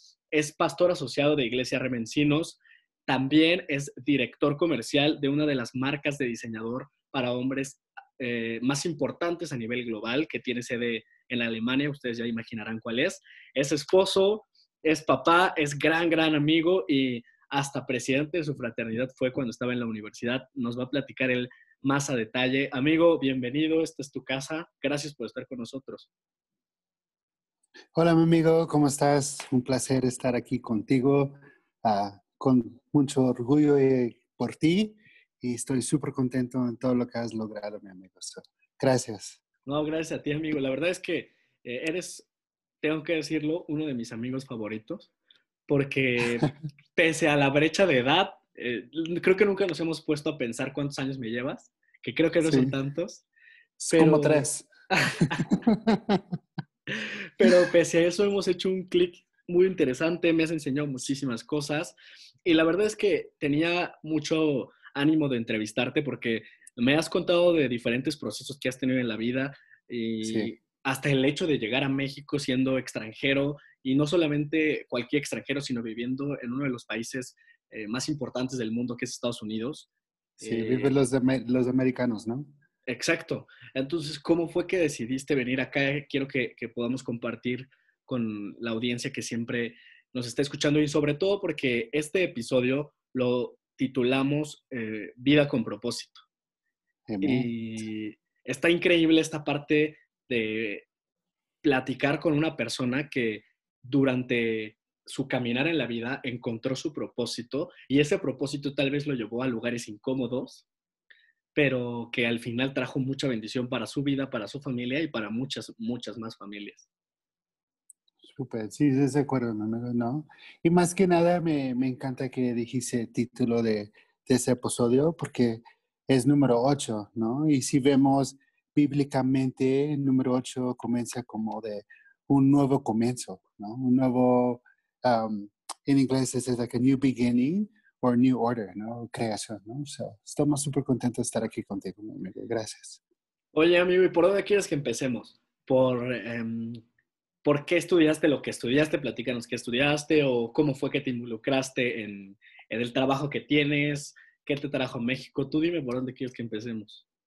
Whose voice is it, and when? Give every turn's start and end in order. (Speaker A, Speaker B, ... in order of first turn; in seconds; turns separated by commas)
Speaker A: 0.3-26.1, Speaker B: 27.9-39.4, Speaker A: 39.7-42.3, Speaker A: 42.8-45.1, Speaker A: 45.7-53.2, Speaker B: 52.4-52.7, Speaker A: 53.8-55.5, Speaker B: 53.9-54.7, Speaker B: 55.4-56.2, Speaker A: 56.9-79.9, Speaker B: 70.2-70.5, Speaker A: 80.4-81.1, Speaker B: 80.4-82.5, Speaker A: 82.9-96.2, Speaker B: 97.1-97.5, Speaker A: 97.2-100.9, Speaker A: 101.6-110.7, Speaker A: 111.5-116.9, Speaker B: 118.3-143.0, Speaker A: 143.5-146.8, Speaker A: 147.4-157.0